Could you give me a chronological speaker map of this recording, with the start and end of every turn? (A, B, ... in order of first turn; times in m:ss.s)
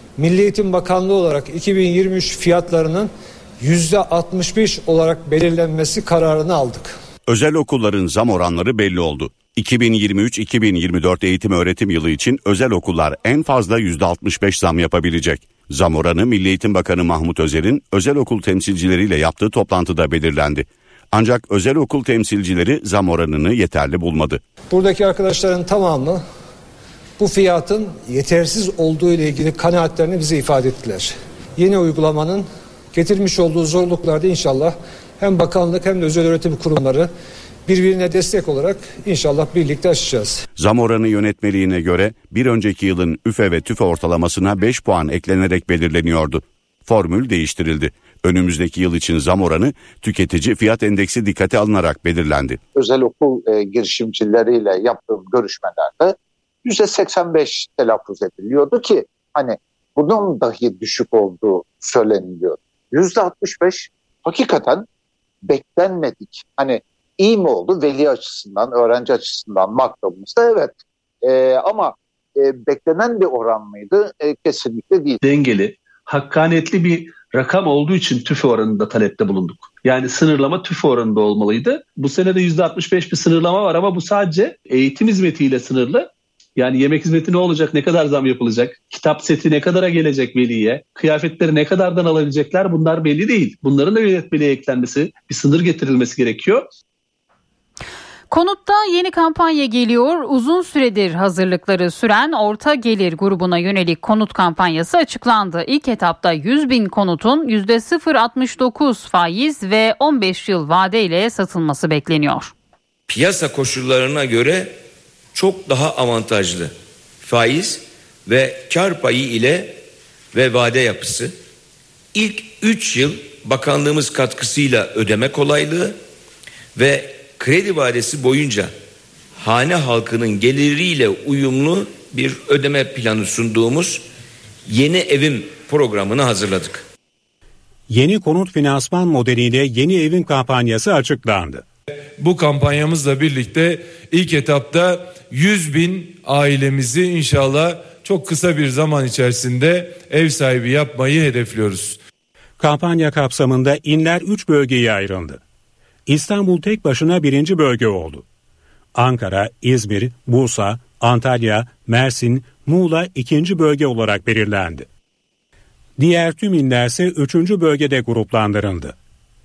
0:00.2-0:06.9 A
0:07.3-0:24.4 B
0:24.7-0:26.2 A
0:27.2-0:37.1 A
0:37.7-0:40.4 A
0:40.6-0:52.6 B
0:52.8-1:04.9 C
1:05.4-1:15.2 C
1:15.2-1:36.7 D
1:38.3-1:52.5 E
1:53.1-1:54.8 F
1:55.3-1:59.8 F
2:00.3-2:01.4 F
2:02.1-2:06.0 F
2:06.8-2:08.8 F
2:09.4-2:14.0 F
2:14.7-2:16.8 F
2:17.9-2:21.6 G
2:22.2-2:32.0 H
2:32.6-2:35.4 G
2:36.1-2:38.2 G
2:39.0-2:44.9 G
2:46.0-2:49.0 G